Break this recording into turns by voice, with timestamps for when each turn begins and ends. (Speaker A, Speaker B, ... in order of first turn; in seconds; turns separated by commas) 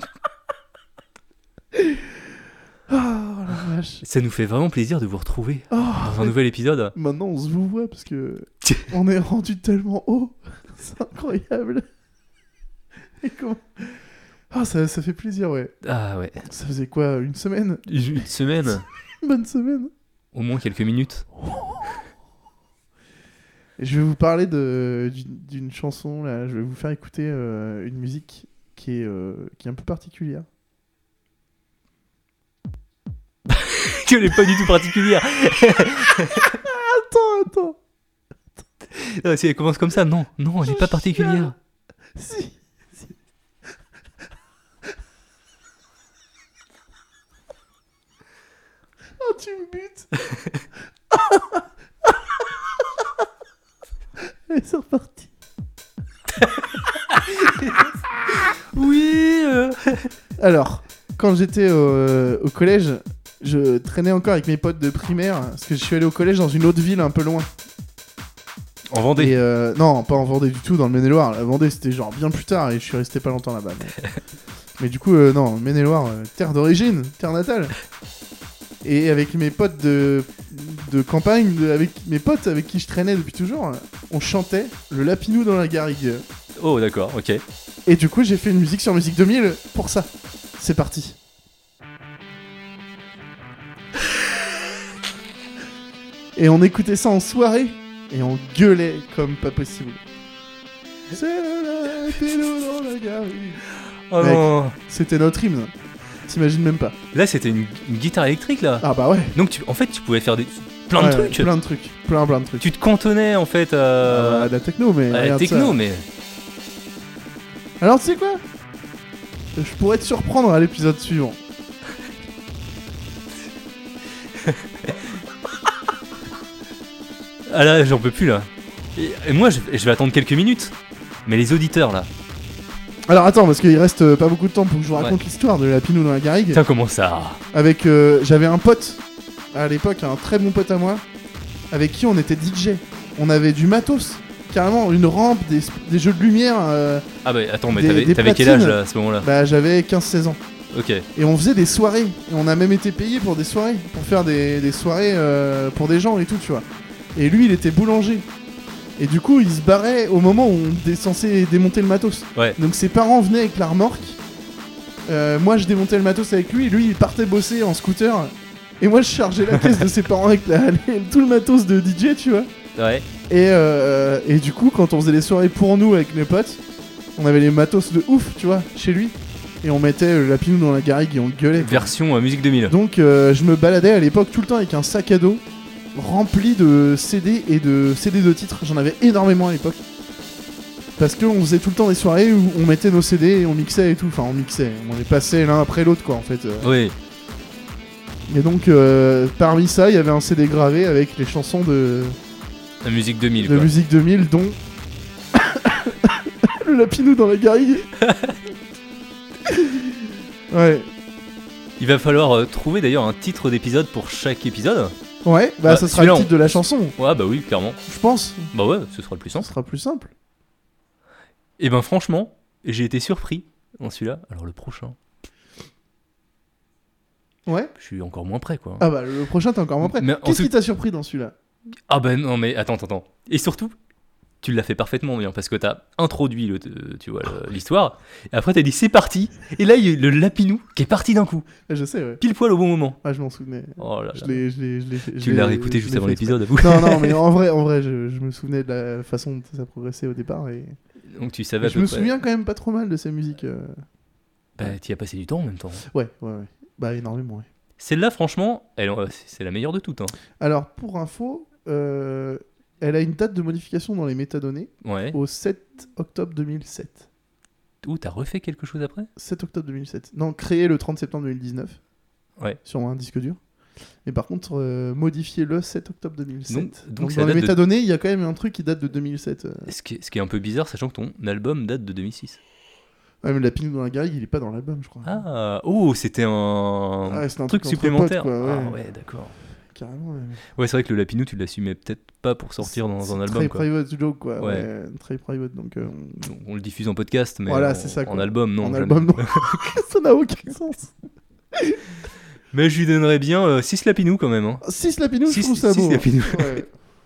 Speaker A: 1.8-2.0, Speaker A: 2.9-4.0, Speaker B: 4.0-6.9, Speaker A: 5.7-6.3, Speaker A: 7.0-11.8, Speaker A: 13.2-15.8, Speaker B: 15.8-16.5, Speaker A: 16.4-17.9, Speaker B: 17.9-18.9, Speaker A: 19.2-19.9, Speaker B: 20.3-21.3, Speaker A: 21.5-22.0, Speaker A: 23.8-30.5, Speaker B: 33.5-36.6, Speaker A: 36.5-37.8, Speaker B: 38.9-41.5, Speaker A: 40.6-41.5, Speaker A: 42.2-42.6, Speaker A: 49.2-50.1, Speaker A: 51.1-51.6, Speaker A: 54.5-55.3, Speaker B: 57.2-57.8, Speaker B: 58.4-60.1, Speaker A: 60.4-67.5, Speaker B: 68.9-69.4, Speaker A: 69.2-74.0, Speaker A: 74.8-77.8, Speaker A: 78.8-86.2, Speaker B: 86.6-87.4, Speaker A: 87.9-91.2, Speaker A: 96.4-100.0, Speaker A: 101.1-103.6, Speaker B: 104.1-104.8, Speaker A: 104.2-105.7, Speaker A: 106.3-107.0, Speaker B: 107.1-111.5, Speaker A: 108.8-109.3, Speaker A: 111.0-112.7, Speaker B: 112.6-114.5, Speaker A: 114.0-115.8, Speaker B: 115.1-116.0, Speaker A: 117.8-118.4, Speaker A: 119.6-121.4, Speaker B: 124.5-124.9, Speaker B: 127.5-130.7, Speaker B: 131.3-132.1, Speaker A: 133.1-136.6, Speaker B: 136.5-137.4, Speaker A: 137.5-139.0, Speaker A: 139.5-141.0, Speaker A: 141.7-147.1, Speaker B: 147.2-149.3, Speaker A: 147.7-150.4, Speaker B: 150.7-151.1, Speaker A: 151.2-158.2, Speaker A: 159.0-164.2, Speaker A: 165.1-172.5, Speaker B: 172.8-173.1, Speaker A: 173.3-176.6, Speaker A: 177.2-181.9, Speaker B: 181.6-182.7, Speaker A: 182.7-185.4, Speaker A: 185.9-189.8, Speaker A: 191.0-196.7, Speaker B: 196.6-196.9, Speaker A: 198.3-202.2, Speaker B: 202.8-203.7, Speaker A: 203.4-204.6, Speaker A: 205.3-207.9, Speaker B: 208.0-208.4, Speaker A: 209.5-209.8, Speaker A: 210.5-210.9, Speaker B: 211.8-214.9, Speaker A: 215.2-217.0, Speaker B: 215.7-217.8, Speaker A: 217.9-218.5, Speaker B: 218.5-219.5, Speaker A: 219.3-220.1, Speaker B: 221.6-225.0, Speaker A: 227.5-227.7, Speaker B: 227.8-228.9, Speaker A: 228.8-231.3, Speaker B: 229.8-230.5, Speaker B: 231.9-233.7, Speaker B: 234.4-241.5, Speaker A: 241.7-242.2, Speaker B: 242.2-243.0, Speaker A: 243.0-250.8, Speaker B: 243.8-244.4, Speaker B: 245.2-247.2, Speaker B: 251.1-252.1, Speaker A: 251.6-253.7, Speaker B: 254.6-255.8, Speaker A: 255.9-257.5, Speaker B: 257.8-260.1, Speaker A: 260.4-267.1, Speaker B: 264.8-265.2, Speaker B: 267.8-269.1, Speaker A: 269.2-271.8, Speaker A: 272.6-273.4, Speaker A: 274.1-279.7, Speaker B: 276.5-277.6, Speaker B: 279.7-282.4, Speaker A: 283.2-285.2, Speaker B: 285.0-289.3, Speaker A: 287.1-288.8, Speaker A: 289.7-290.4, Speaker B: 290.6-293.7, Speaker A: 292.6-296.3, Speaker B: 294.4-294.7, Speaker B: 296.2-299.7, Speaker A: 297.5-300.9, Speaker B: 302.5-304.6, Speaker A: 304.6-306.7, Speaker B: 305.3-306.6